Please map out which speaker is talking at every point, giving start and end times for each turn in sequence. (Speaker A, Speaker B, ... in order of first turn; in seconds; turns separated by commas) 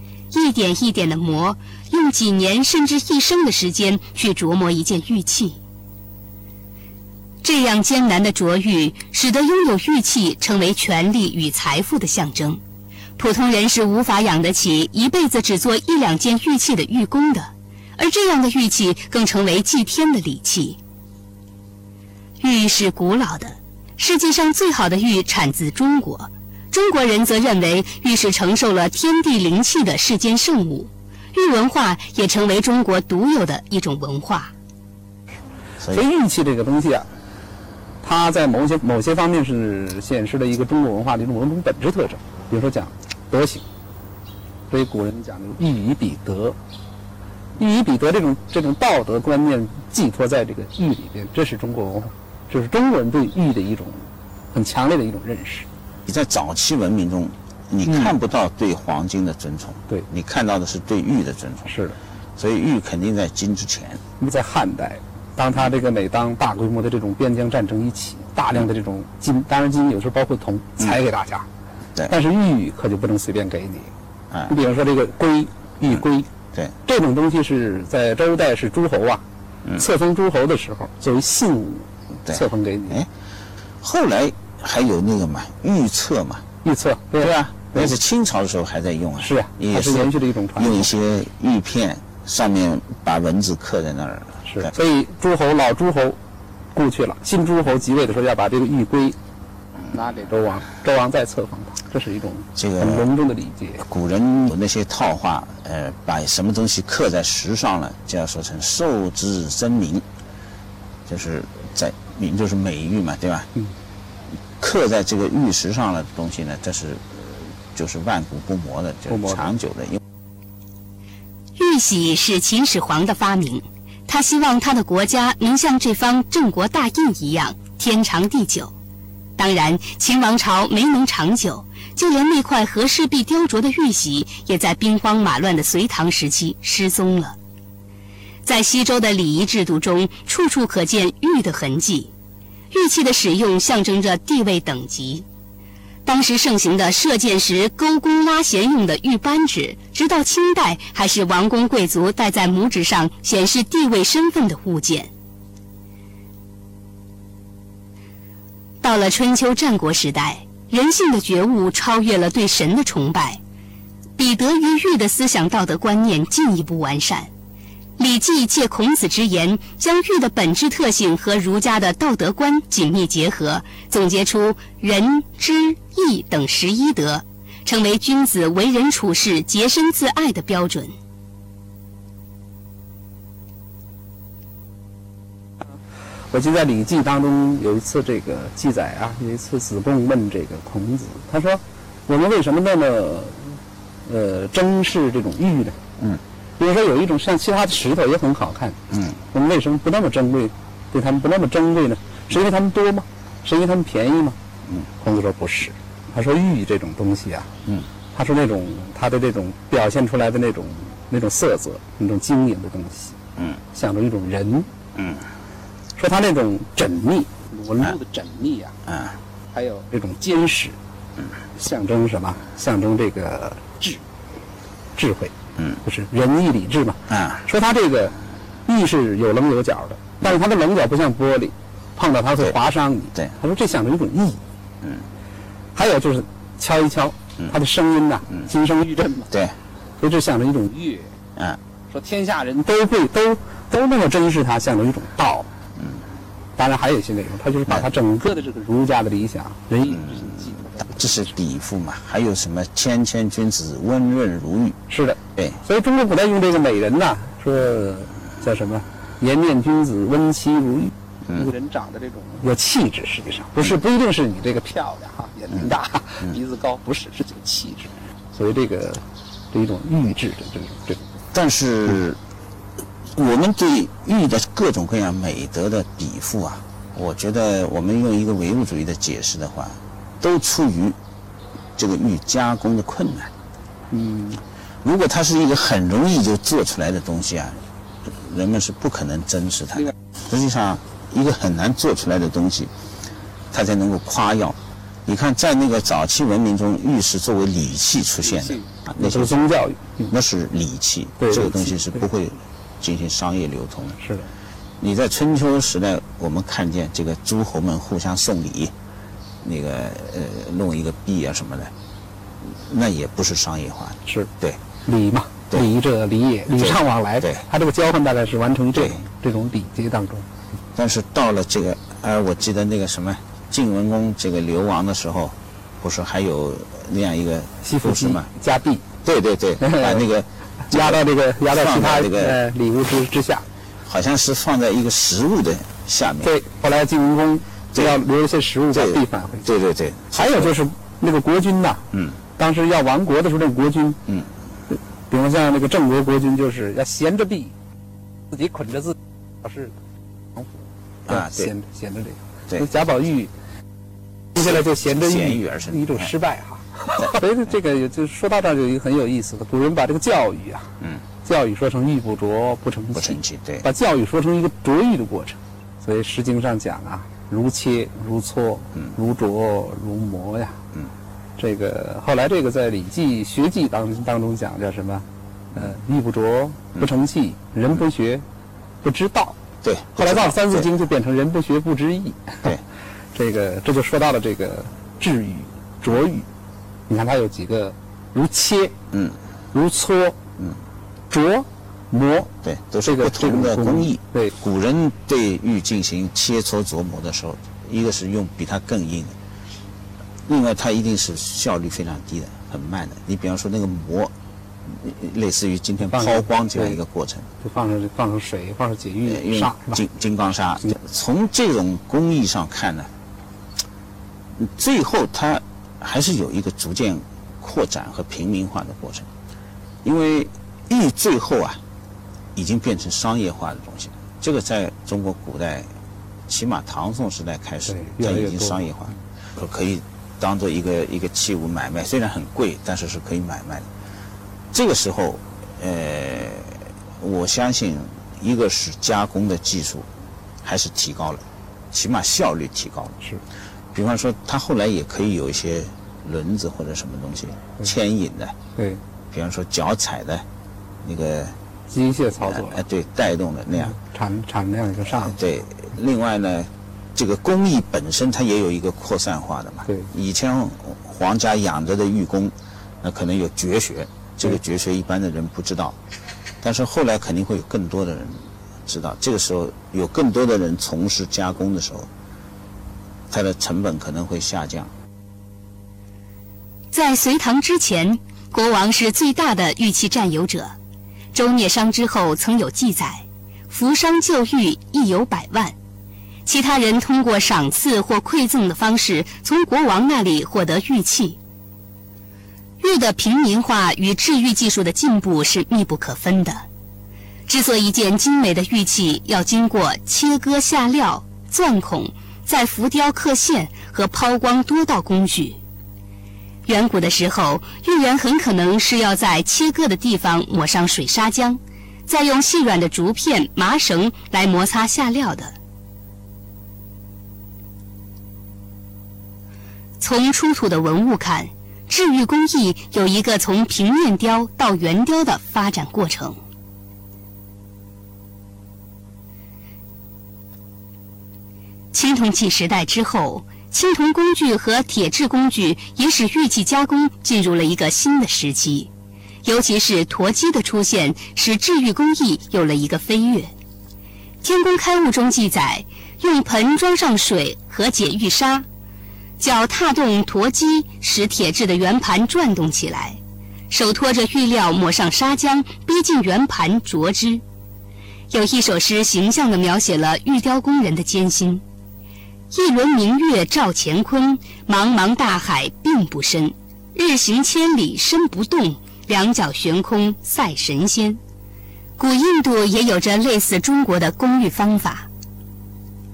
Speaker A: 0.3-5.6, Speaker A: 7.4-12.6, Speaker A: 13.2-20.8, Speaker A: 22.4-34.5, Speaker B: 35.9-37.1, Speaker B: 38.0-43.6, Speaker B: 44.7-46.6, Speaker B: 47.6-55.7, Speaker C: 56.1-61.7, Speaker B: 57.9-58.1, Speaker B: 61.7-62.0, Speaker C: 62.4-64.0, Speaker B: 64.2-71.5, Speaker B: 72.1-73.9, Speaker B: 74.5-76.3, Speaker B: 76.8-79.2, Speaker B: 79.8-83.0, Speaker C: 82.2-83.1, Speaker C: 83.8-86.4, Speaker B: 86.6-87.9, Speaker C: 87.2-94.7, Speaker B: 89.2-90.9, Speaker B: 94.4-96.2, Speaker B: 96.7-99.2, Speaker B: 99.9-103.9, Speaker C: 102.6-103.1, Speaker C: 103.8-110.0, Speaker C: 111.1-113.5, Speaker C: 114.6-120.0, Speaker B: 119.1-119.5, Speaker A: 121.6-128.7, Speaker A: 129.4-137.4, Speaker A: 138.4-142.1, Speaker A: 142.7-145.2, Speaker A: 146.1-155.1, Speaker A: 158.8-163.4, Speaker A: 164.2-167.3, Speaker A: 168.0-180.9, Speaker B: 186.3-195.8, Speaker B: 196.6-198.8, Speaker C: 198.9-199.2, Speaker B: 199.3-204.4, Speaker B: 205.0-207.5, Speaker B: 208.1-213.2, Speaker B: 213.7-214.7, Speaker C: 215.0-215.2, Speaker B: 216.0-218.8, Speaker C: 218.9-219.2, Speaker B: 219.5-220.8, Speaker B: 221.6-224.0, Speaker B: 225.0-234.4, Speaker C: 225.6-225.8, Speaker C: 227.1-227.5, Speaker B: 235.8-239.3, Speaker B: 240.0-241.1, Speaker B: 241.9-245.5, Speaker B: 246.6-251.3, Speaker C: 249.9-254.8, Speaker B: 254.9-271.1, Speaker C: 271.3-272.2, Speaker C: 273.1-281.0, Speaker C: 281.8-283.3, Speaker B: 283.9-284.4, Speaker C: 284.8-292.7, Speaker C: 293.5-299.5, Speaker B: 299.0-300.1, Speaker C: 300.1-304.0, Speaker B: 301.2-301.8, Speaker B: 304.0-304.3, Speaker C: 304.8-308.7, Speaker C: 309.4-311.7, Speaker C: 312.4-314.6, Speaker B: 314.1-314.3, Speaker B: 314.9-320.2, Speaker C: 316.5-317.4, Speaker C: 320.8-328.3, Speaker B: 327.6-328.9, Speaker C: 329.0-332.4, Speaker B: 329.6-330.0, Speaker B: 330.6-333.4, Speaker C: 333.9-336.3, Speaker B: 336.2-339.5, Speaker C: 338.7-340.5, Speaker B: 340.1-344.0, Speaker C: 341.9-342.2, Speaker B: 344.7-347.5, Speaker B: 348.3-349.8, Speaker C: 351.1-351.5, Speaker B: 351.1-353.3, Speaker B: 354.4-360.7, Speaker C: 354.4-356.1, Speaker B: 361.2-370.6, Speaker C: 362.9-363.7, Speaker B: 371.4-378.2, Speaker B: 378.8-379.4, Speaker C: 379.6-380.7, Speaker B: 380.0-382.6, Speaker B: 383.1-386.3, Speaker B: 386.9-388.8, Speaker B: 389.5-390.2, Speaker B: 391.1-392.3, Speaker C: 392.4-399.1, Speaker B: 392.9-394.3, Speaker C: 400.2-404.1, Speaker C: 404.7-407.3, Speaker B: 405.9-406.8, Speaker B: 407.4-409.8, Speaker C: 409.1-412.9, Speaker C: 414.4-419.1, Speaker C: 419.8-421.6, Speaker C: 422.4-425.7, Speaker C: 426.3-433.7, Speaker B: 427.7-428.7, Speaker C: 434.5-439.9, Speaker C: 440.4-443.0, Speaker C: 443.7-448.4, Speaker B: 448.6-448.8, Speaker C: 449.1-450.2, Speaker C: 450.8-451.4, Speaker B: 451.7-452.6, Speaker C: 452.2-453.8, Speaker B: 453.7-455.2, Speaker C: 454.9-465.8, Speaker C: 466.4-471.9, Speaker C: 473.1-474.7, Speaker A: 476.7-480.5, Speaker A: 481.1-485.5, Speaker A: 486.2-491.2, Speaker A: 492.6-496.4, Speaker A: 497.3-505.4, Speaker A: 506.5-515.4, Speaker A: 519.8-526.2, Speaker A: 531.7-538.7, Speaker A: 539.2-543.3, Speaker A: 544.2-548.5, Speaker A: 549.2-553.0, Speaker A: 553.5-557.2, Speaker A: 558.1-561.4, Speaker A: 562.3-571.0, Speaker A: 571.8-574.9